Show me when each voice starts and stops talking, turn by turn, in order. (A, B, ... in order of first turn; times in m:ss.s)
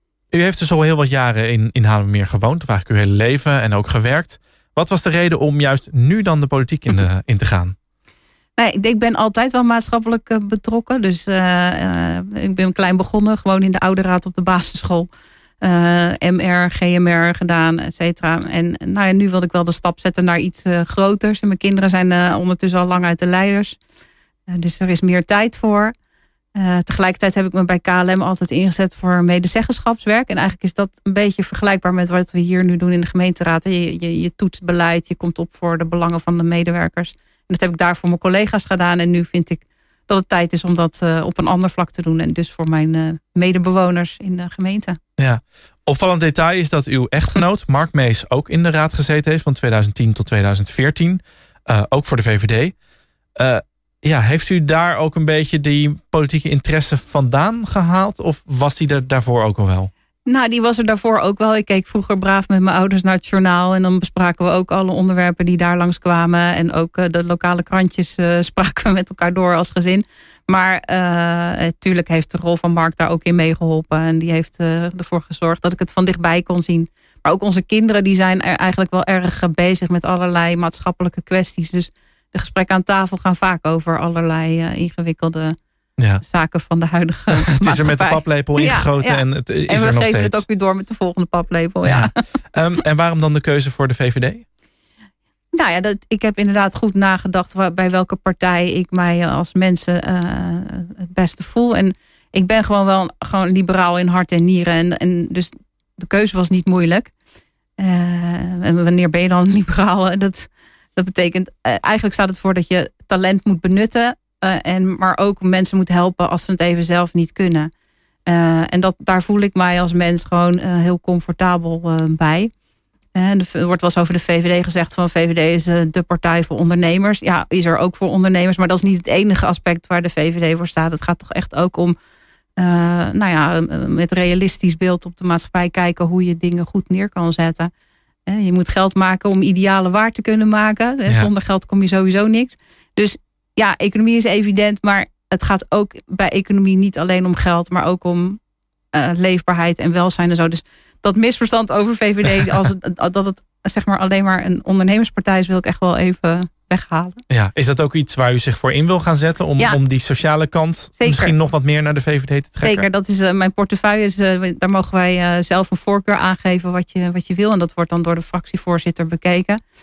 0:00.3-0:07.7 A
0:08.6-0:15.1 B
0:15.6-0:23.8 B
0:24.5-0:25.9 B
0:26.6-0:45.0 B
0:45.2-0:52.7 A
0:53.4-0:59.9 A
1:00.3-1:25.6 B
1:26.2-1:32.2 B
1:27.3-1:30.4 A
1:31.8-1:34.4 A
1:35.5-1:47.1 B
1:47.8-1:57.7 B
1:58.3-2:02.5 B
2:03.2-2:11.9 B
2:12.6-2:17.7 B
2:18.3-2:28.4 B
2:28.9-2:37.2 B
2:37.3-2:42.9 A
2:41.0-2:41.4 B
2:42.6-2:49.6 B